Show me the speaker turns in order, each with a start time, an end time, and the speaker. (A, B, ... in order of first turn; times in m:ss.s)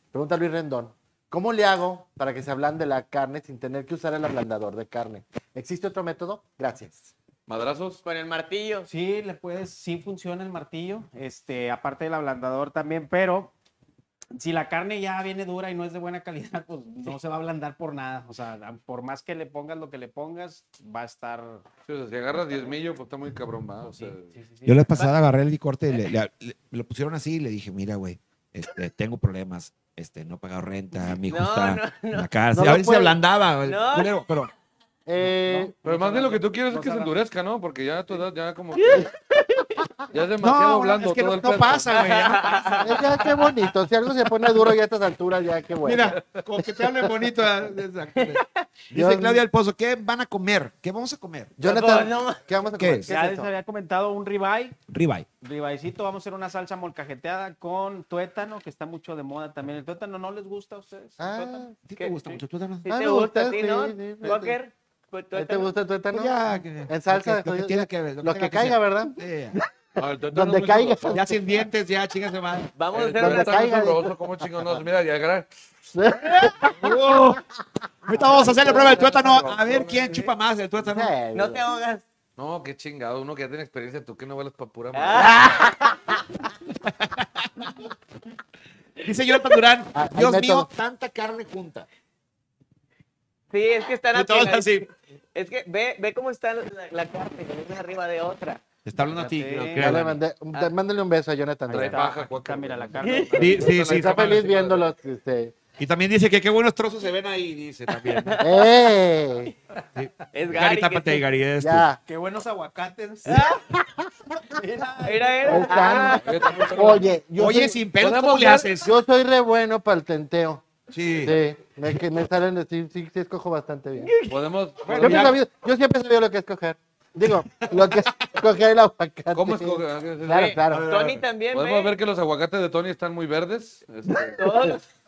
0:00.1-0:07.1 A
0:07.5-0:08.0 B
0:08.0-0:08.9 C
0:08.9-0:13.5 D
0:14.4-0:21.6 D
0:21.9-0:24.3 B
0:23.8-0:25.1 D
0:24.7-0:34.5 E
0:31.3-0:32.3 C
0:32.5-0:33.2 A
0:33.6-0:34.1 C
0:35.1-0:35.7 A
0:35.2-0:37.2 D
0:35.8-0:39.1 B
0:38.8-0:39.9 C
0:40.1-0:42.1 B
0:40.4-0:43.0 E
0:41.9-0:43.5 C
0:42.8-0:47.3 A
0:45.8-0:51.5 E
0:48.2-0:48.6 C
0:48.9-0:49.4 A
0:51.6-0:53.5 A
0:51.6-0:52.5 C
0:52.8-0:53.1 E
0:53.1-0:54.8 D
0:54.9-0:55.3 E
0:55.4-1:01.7 D
1:01.2-1:01.8 A
1:01.9-1:02.9 E
1:02.0-1:05.7 C
1:02.9-1:04.6 A
1:05.3-1:09.7 A
1:06.1-1:09.6 E
1:10.0-1:11.2 B
1:10.3-1:11.6 A
1:11.1-1:12.7 E
1:12.8-1:13.8 C
1:12.9-1:15.5 B
1:13.2-1:14.2 A
1:15.9-1:17.2 A
1:16.3-1:17.4 E
1:18.1-1:19.5 A
1:18.1-1:21.1 E
1:19.2-1:19.7 B
1:20.8-1:21.7 A
1:21.3-1:22.0 C
1:22.4-1:25.3 B
1:24.9-1:26.0 C
1:25.3-1:25.9 A
1:27.0-1:27.6 E
1:29.0-1:31.9 E
1:29.9-1:30.7 A
1:33.5-1:38.6 C
1:34.1-1:34.9 E
1:38.8-1:40.2 E
1:39.1-1:40.0 D
1:39.8-1:42.0 A
1:41.7-1:44.9 B
1:41.7-1:43.7 D
1:43.0-1:43.3 C
1:43.4-1:44.4 E
1:43.7-1:45.6 A
1:45.8-1:48.4 E
1:48.1-1:48.9 C
1:48.4-1:49.5 A
1:50.0-1:51.9 E
1:50.3-1:51.2 C
1:51.6-1:52.0 A
1:52.1-1:53.6 D
1:53.3-1:53.6 C
1:54.5-1:57.0 D
1:55.0-1:56.6 C
1:55.4-1:57.8 A
1:56.2-1:57.0 B
1:57.4-1:59.0 E
1:58.0-1:58.7 B
1:58.8-2:00.6 A
2:00.9-2:01.4 E
2:01.2-2:04.1 A
2:04.0-2:04.4 C
2:04.3-2:05.4 B
2:04.8-2:05.4 E
2:05.0-2:10.9 A
2:07.6-2:08.1 E
2:09.3-2:10.6 B
2:10.3-2:11.9 C
2:10.7-2:11.2 E
2:11.5-2:14.8 B
2:14.4-2:14.8 C